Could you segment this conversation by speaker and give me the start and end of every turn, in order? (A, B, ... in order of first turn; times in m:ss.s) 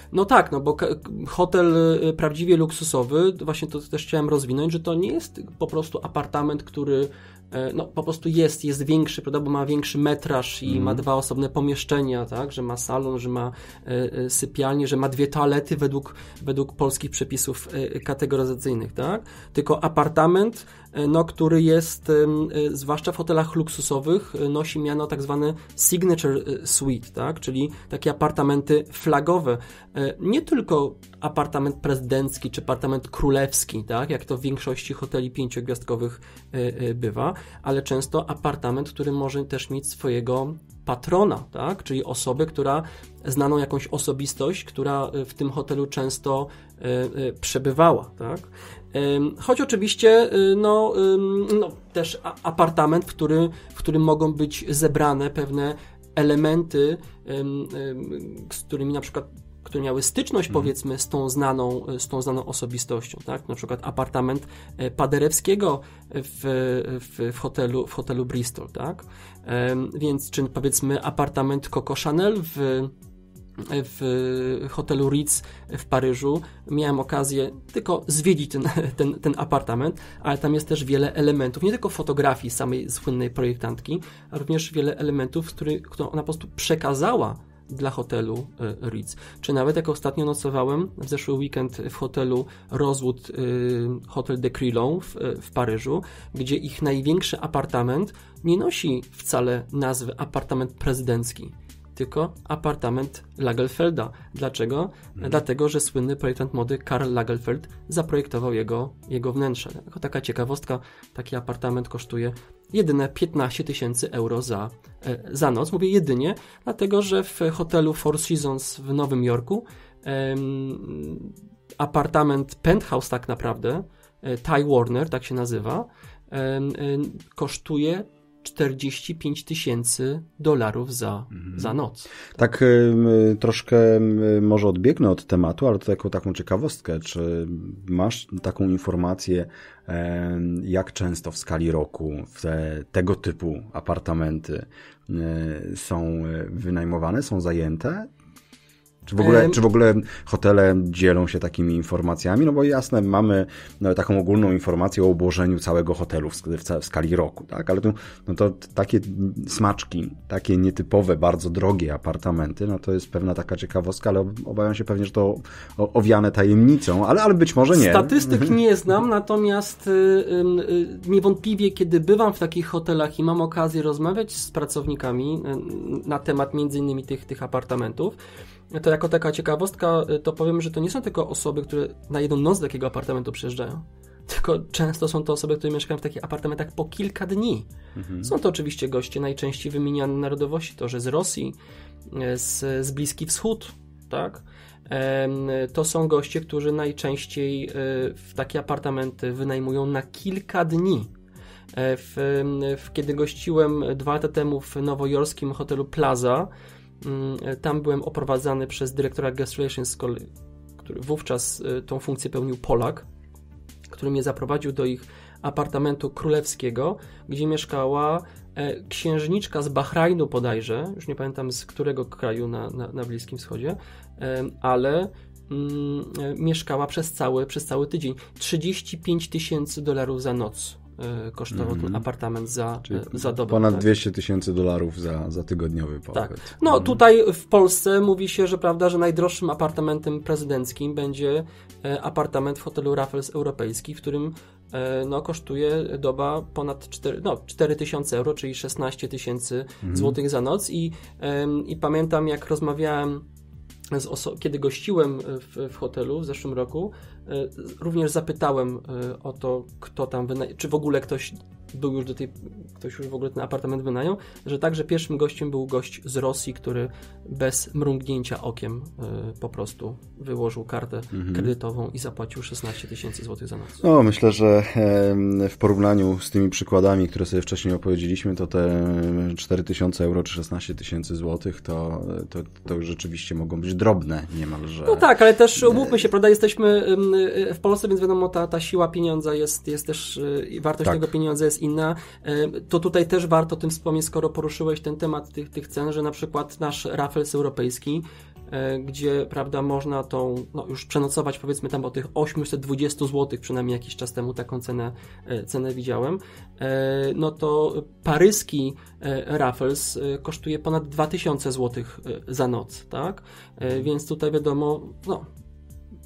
0:00.1-1:12.9 A
0:10.7-0:11.0 B
1:13.6-2:12.2 A
2:12.4-2:28.1 B
2:29.1-2:48.6 B
2:29.2-2:29.6 A
2:47.7-2:58.2 A
2:58.7-3:07.7 A
3:08.0-3:08.3 B
3:08.2-3:11.6 A
3:12.1-3:21.1 A
3:21.7-3:26.5 A
3:27.0-3:33.1 A
3:33.9-3:53.9 A
3:51.5-3:52.0 B
3:52.9-3:57.0 B
3:56.1-4:13.2 A
4:09.8-4:10.2 B
4:13.9-4:33.8 A
4:31.2-4:31.5 B
4:33.8-4:45.1 B
4:44.9-5:15.3 A
4:45.6-4:46.0 B
4:50.8-4:51.1 B